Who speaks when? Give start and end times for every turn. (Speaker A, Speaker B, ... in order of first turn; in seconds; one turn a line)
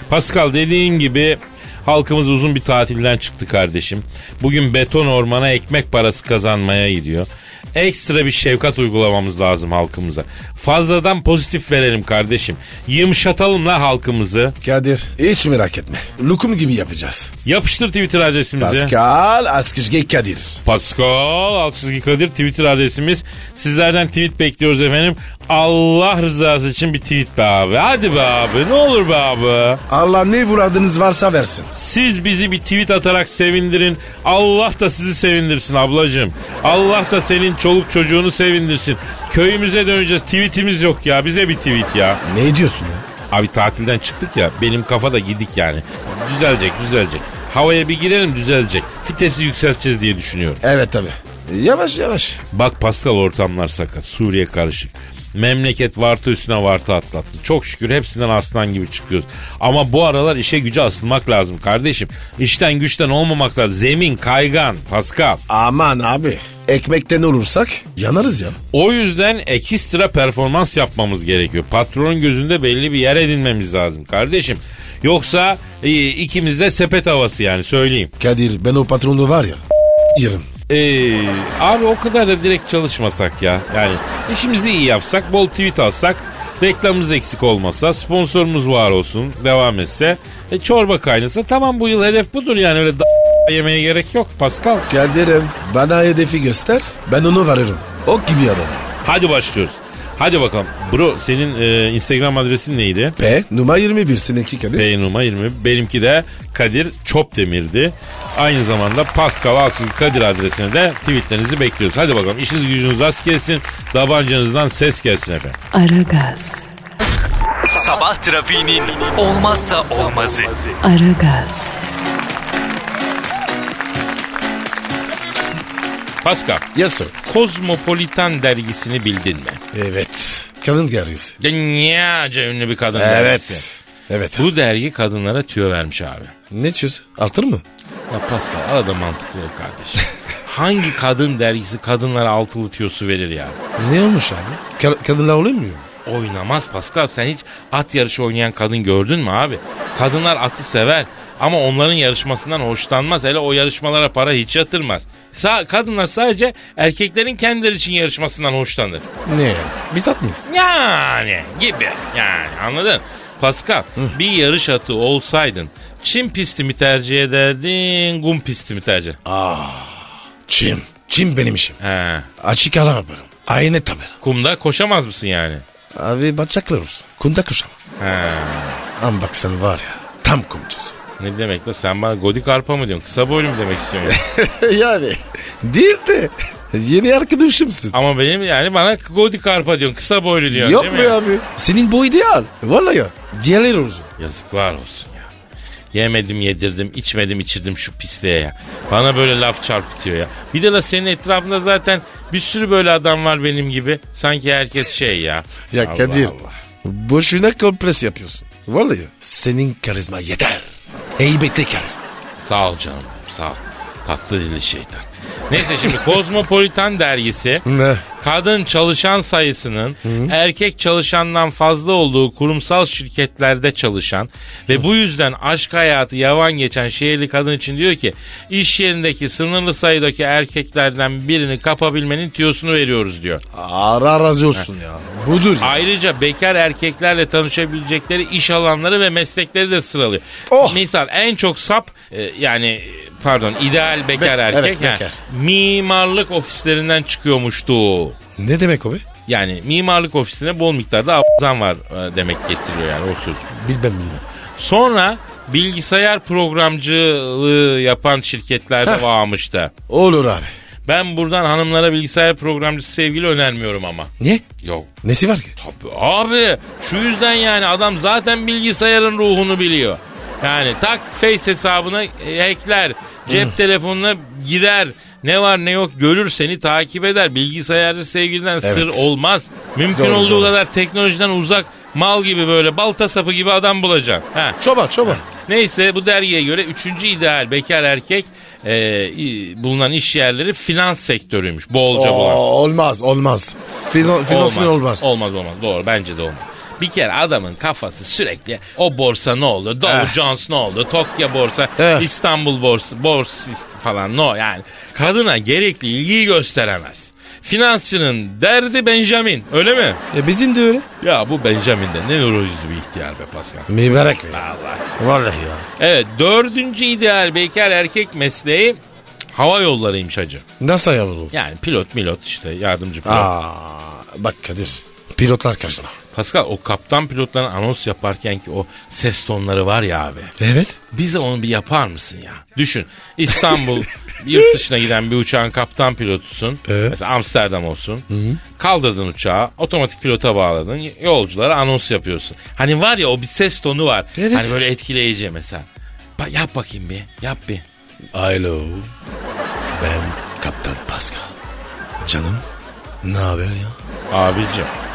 Speaker A: 0.1-14.6
Speaker B: 14.6-17.3
Speaker A: 17.4-18.9
Speaker B: 18.6-20.6
Speaker A: 20.6-29.8
Speaker B: 29.9-31.7
Speaker A: 31.8-42.2
Speaker B: 42.2-43.0
Speaker A: 43.3-50.6
Speaker B: 50.6-52.4
Speaker A: 52.5-65.4
Speaker B: 65.5-68.6
Speaker A: 68.7-78.1
Speaker B: 78.2-79.6
Speaker B: 80.1-80.5
Speaker A: 80.7-94.9
Speaker B: 94.9-98.8
Speaker A: 99.0-103.2
Speaker B: 103.2-104.9
Speaker A: 104.8-115.6
Speaker C: 115.7-116.8
Speaker D: 117.7-120.8
Speaker C: 120.8-121.8
Speaker A: 126.2-126.6
Speaker B: 126.8-127.1
Speaker A: 127.2-129.6
Speaker B: 129.7-131.3
Speaker A: 131.4-133.6
Speaker B: 132.9-134.5
Speaker A: 134.3-136.3
Speaker B: 136.5-137.6
Speaker A: 138.1-143.6
Speaker B: 143.8-145.9
Speaker A: 146.1-159.0
Speaker B: 159.3-160.4
Speaker A: 160.5-169.2
Speaker B: 169.2-171.8
Speaker A: 171.8-172.3
Speaker B: 172.4-174.1
Speaker A: 174.2-175.6
Speaker B: 175.9-177.7
Speaker A: 178.0-178.8
Speaker B: 179.0-181.0
Speaker A: 181.2-184.2
Speaker B: 184.0-187.9
Speaker A: 187.9-191.2
Speaker B: 190.5-194.1
Speaker A: 194.2-195.3
Speaker A: 195.9-206.5
Speaker B: 205.7-212.1
Speaker A: 212.4-217.7
Speaker B: 217.7-218.0
Speaker A: 218.2-233.4
Speaker B: 220.0-220.3
Speaker B: 233.5-235.8
Speaker A: 235.6-248.2
Speaker B: 240.5-240.8
Speaker B: 244.2-245.2
Speaker B: 248.4-249.0
Speaker A: 249.3-253.4
Speaker B: 253.5-254.2
Speaker A: 254.6-259.7
Speaker B: 259.9-260.5
Speaker A: 260.9-264.9
Speaker B: 264.2-264.4
Speaker B: 265.0-265.5
Speaker A: 265.6-292.4
Speaker B: 273.3-273.5
Speaker B: 278.6-279.1
Speaker B: 279.9-280.5
Speaker B: 284.6-285.2
Speaker B: 291.9-295.0
Speaker A: 294.0-310.0
Speaker B: 299.8-300.1
Speaker B: 301.8-302.1
Speaker B: 310.1-310.9
Speaker A: 311.0-313.7
Speaker B: 313.7-314.4
Speaker A: 314.3-314.9
Speaker B: 315.0-315.6
Speaker A: 315.8-318.8
Speaker A: 319.3-320.4
Speaker B: 320.6-321.3
Speaker A: 321.3-323.3
Speaker B: 323.0-326.0
Speaker A: 326.1-330.3
Speaker B: 330.4-330.8
Speaker A: 330.9-347.6
Speaker B: 336.6-336.9
Speaker B: 338.1-338.4
Speaker B: 344.1-344.6
Speaker B: 348.1-348.9
Speaker B: 349.8-351.3
Speaker B: 352.0-352.4
Speaker B: 353.0-353.8
Speaker A: 354.1-354.7